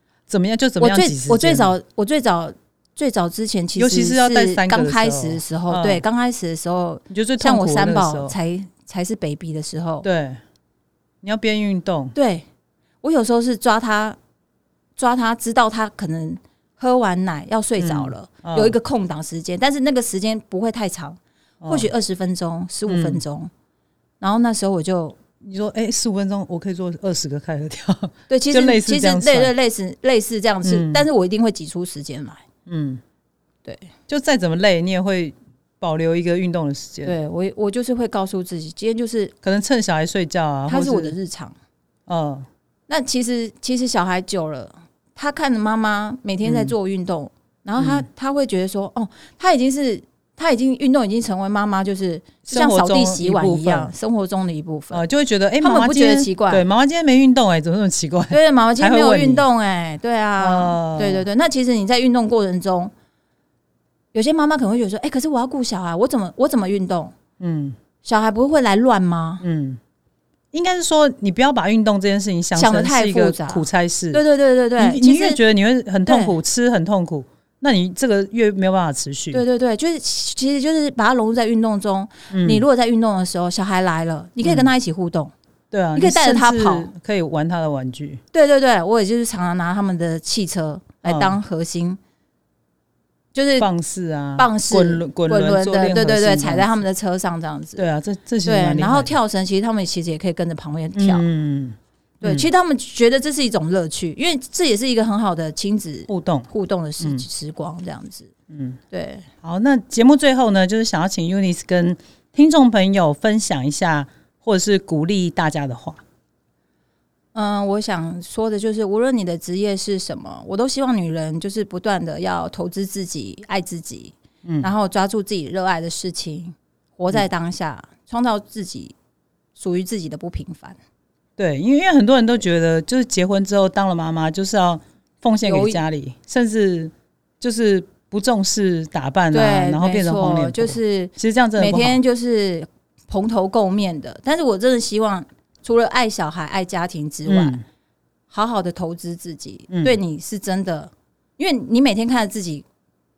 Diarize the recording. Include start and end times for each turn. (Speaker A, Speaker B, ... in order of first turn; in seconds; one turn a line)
Speaker A: 0.3-1.7
Speaker B: 0.8-10.1
Speaker A: 3.8-6.0
Speaker A: 7.1-8.3
Speaker A: 10.0-10.4
Speaker A: 11.2-12.1
Speaker B: 12.1-12.4
Speaker B: 13.0-14.2
Speaker B: 15.0-23.5
Speaker A: 17.8-18.7
Speaker A: 21.6-21.9
Speaker A: 22.9-23.2
Speaker B: 24.2-25.2
Speaker A: 25.4-29.5
Speaker B: 28.3-32.4
Speaker A: 30.6-31.1
Speaker A: 32.7-33.0
Speaker B: 33.6-33.9
Speaker A: 34.1-37.1
Speaker B: 37.0-39.3
Speaker A: 39.4-41.1
Speaker B: 40.7-41.5
Speaker A: 42.1-42.5
Speaker B: 42.9-55.0
Speaker A: 46.4-46.7
Speaker A: 47.8-48.1
Speaker A: 52.5-53.9
Speaker A: 54.9-59.4
Speaker B: 55.6-56.6
Speaker B: 58.3-62.9
Speaker A: 60.4-61.2
Speaker B: 64.1-67.1
Speaker A: 67.4-67.8
Speaker B: 68.0-69.4
Speaker A: 69.4-69.8
Speaker A: 70.5-74.2
Speaker B: 72.5-75.4
Speaker A: 74.8-79.4
Speaker B: 76.0-76.3
Speaker B: 79.3-85.3
Speaker A: 82.3-82.6
Speaker A: 84.4-84.7
Speaker A: 85.7-88.2
Speaker B: 86.0-86.9
Speaker B: 88.3-92.0
Speaker A: 91.0-91.3
Speaker B: 93.3-93.7
Speaker A: 93.6-96.8
Speaker B: 94.4-97.8
Speaker A: 97.8-99.2
Speaker B: 98.4-101.2
Speaker A: 100.9-102.5
Speaker B: 102.2-108.3
Speaker A: 106.1-106.5
Speaker A: 108.5-108.8
Speaker B: 108.9-109.3
Speaker A: 109.4-116.0
Speaker B: 117.3-128.9
Speaker A: 124.4-124.7
Speaker B: 129.6-130.8
Speaker A: 131.4-142.0
Speaker B: 135.4-135.8
Speaker B: 139.3-147.6
Speaker A: 147.2-147.6
Speaker B: 148.3-152.6
Speaker A: 149.7-150.0